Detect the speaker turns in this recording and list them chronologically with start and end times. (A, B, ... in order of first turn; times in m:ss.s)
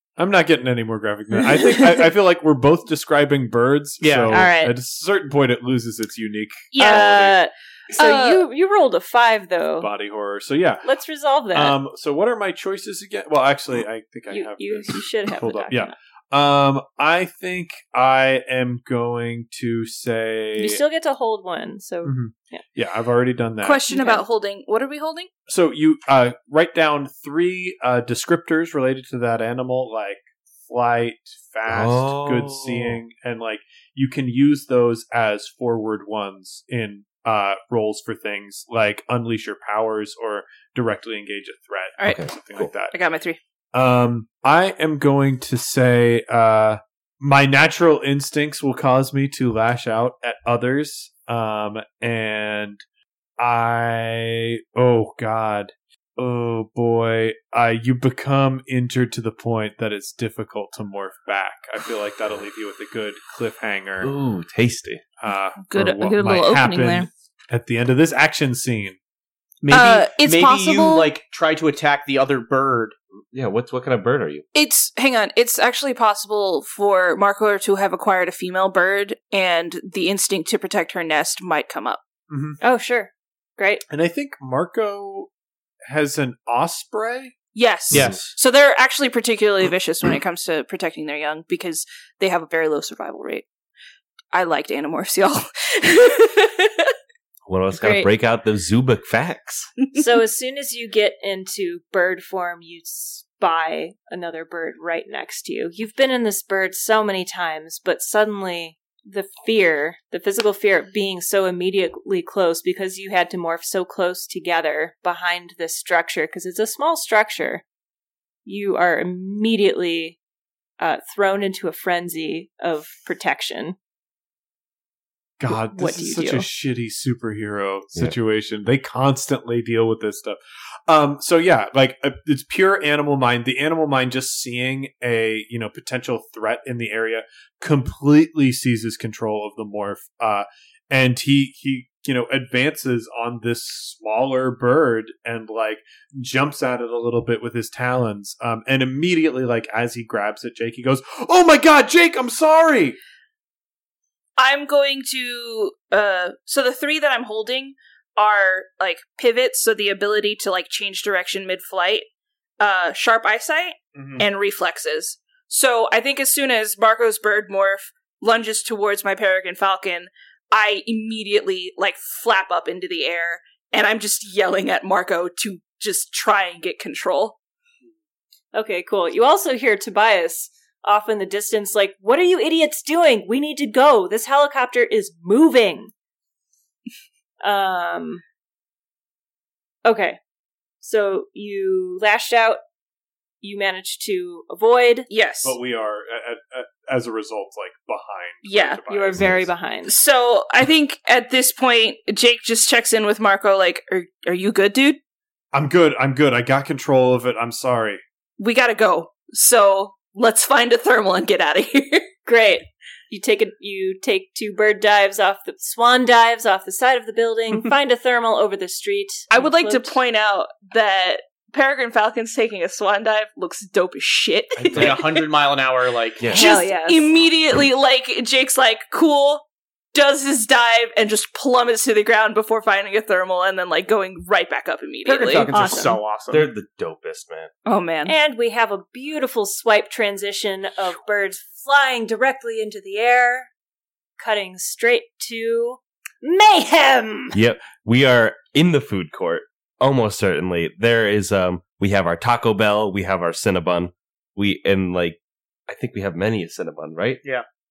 0:00.2-0:07.2 A
0:04.0-0:04.4 B
0:04.3-0:04.8 C
0:06.7-0:07.4 D
0:06.8-0:09.9 C
0:07.9-0:08.4 D
0:09.8-0:10.9 A
0:10.8-0:11.8 C
0:11.5-0:20.8 A
0:14.3-0:15.9 C
0:20.6-0:22.6 C
0:22.0-0:23.8 A
0:23.6-0:25.3 D
0:23.9-0:24.2 C
0:25.5-0:42.9 A
0:31.7-0:33.0 E
0:42.0-0:43.4 D
0:43.7-0:52.8 A
0:53.4-1:04.1 A
1:04.0-1:05.0 E
1:05.2-1:09.0 A
1:05.6-1:07.1 D
1:09.6-1:12.9 B
1:09.7-1:11.1 D
1:13.3-1:14.4 E
1:14.5-1:22.0 D
1:22.3-1:22.6 A
1:22.6-1:23.8 C
1:23.9-1:25.3 A
1:25.9-1:27.3 A
1:27.5-1:33.4 D
1:27.9-1:28.3 B
1:34.3-1:36.9 D
1:37.5-1:39.7 E
1:37.8-1:38.0 D
1:39.9-1:57.6 C
1:58.4-2:00.2 C
2:00.8-2:03.8 C
2:05.4-2:33.0 A
2:05.7-2:06.5 C
2:34.4-2:42.1 D
2:42.6-2:57.4 D
2:44.0-2:44.2 A
2:58.5-3:05.9 C
3:07.4-3:08.2 C
3:09.8-3:10.2 C
3:10.8-3:12.6 C
3:13.4-3:15.1 C
3:15.1-3:15.6 D
3:15.4-3:19.5 A
3:18.4-3:18.8 D
3:18.9-3:19.9 C
3:19.8-3:25.0 D
3:25.5-3:28.0 A
3:28.4-3:32.1 D
3:32.2-3:40.0 C
3:39.3-3:45.2 D
3:44.6-3:44.9 E
3:44.7-3:46.3 B
3:46.2-3:46.4 E
3:46.3-3:55.8 D
3:46.3-3:47.1 C
3:55.0-3:56.5 B
3:55.5-3:56.0 C
3:56.3-3:57.5 E
3:57.6-3:58.1 D
3:58.0-4:03.5 C
4:04.2-4:07.4 C
4:07.3-4:17.2 E